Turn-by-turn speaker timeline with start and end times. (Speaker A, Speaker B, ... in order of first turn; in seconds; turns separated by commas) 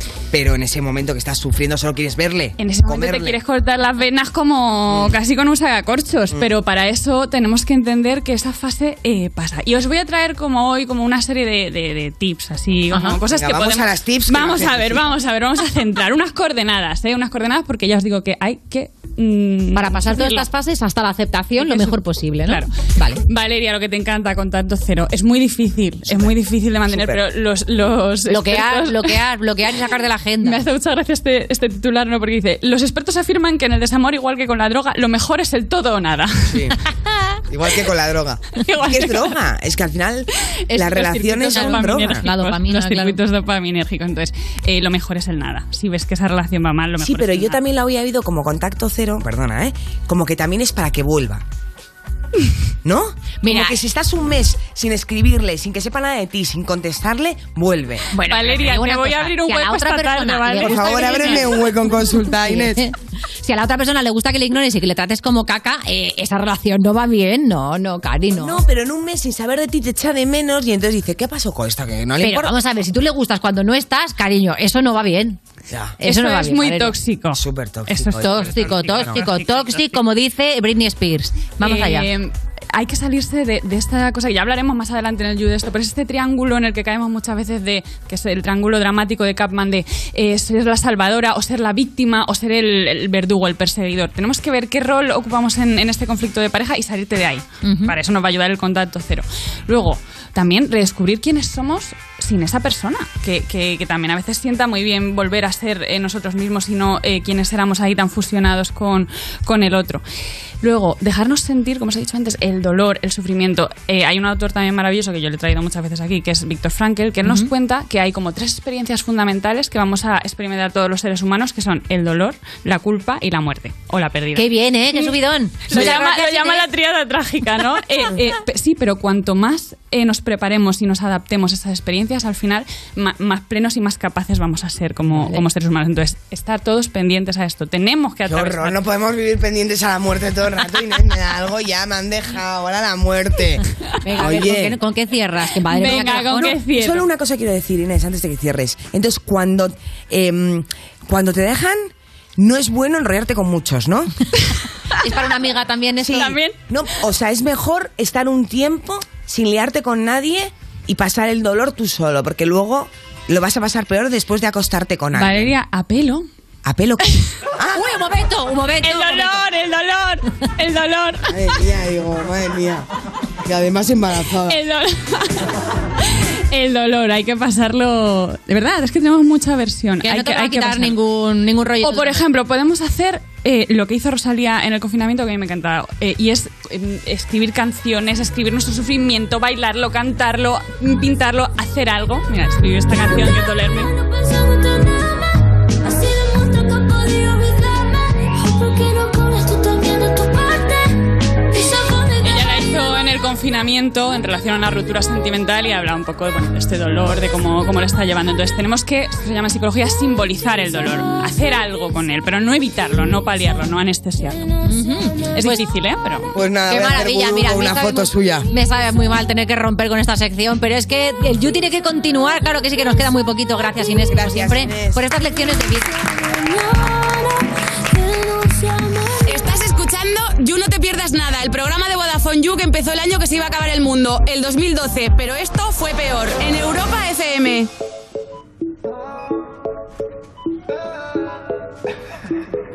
Speaker A: 0.3-3.4, Speaker B: 2.6-20.5, Speaker C: 12.9-13.2, Speaker A: 13.3-15.1, Speaker C: 19.7-23.2, Speaker B: 21.6-22.7, Speaker B: 23.2-29.2, Speaker A: 26.9-27.2, Speaker C: 28.3-30.6, Speaker B: 30.4-36.6, Speaker A: 36.5-36.8, Speaker A: 37.5-42.3, Speaker B: 38.7-39.3, Speaker B: 40.7-47.6, Speaker C: 41.5-43.2, Speaker A: 47.0-51.4, Speaker A: 52.8-58.1, Speaker C: 53.4-53.8, Speaker C: 58.1-61.7, Speaker B: 58.3-61.5, Speaker A: 60.6-62.8, Speaker C: 62.3-68.6, Speaker A: 68.3-72.6, Speaker C: 72.2-75.4, Speaker A: 75.7-76.0, Speaker C: 76.0-77.0, Speaker B: 76.0-79.2, Speaker A: 77.3-79.2, Speaker C: 78.2-82.1, Speaker B: 81.6-110.0, Speaker C: 97.6-98.0, Speaker B: 110.6-125.2, Speaker C: 117.2-117.5, Speaker C: 124.3-126.7, Speaker B: 125.7-138.8, Speaker C: 135.1-135.4, Speaker A: 138.2-143.6, Speaker C: 144.0-146.6, Speaker A: 144.2-144.8, Speaker B: 145.7-147.1, Speaker A: 145.8-154.1, Speaker C: 155.0-156.4, Speaker A: 156.0-165.6, Speaker B: 156.1-156.6, Speaker B: 165.1-166.3, Speaker A: 166.7-167.9, Speaker C: 167.7-169.5, Speaker B: 168.8-171.4, Speaker A: 171.3-172.9, Speaker A: 173.4-174.6, Speaker B: 174.5-175.4, Speaker B: 176.5-181.0, Speaker C: 180.0-182.2, Speaker B: 181.8-193.9, Speaker B: 202.2-214.5, Speaker C: 214.6-215.6, Speaker B: 215.3-216.3, Speaker A: 216.3-218.5, Speaker C: 216.7-226.1, Speaker A: 224.1-225.0, Speaker D: 229.2-237.7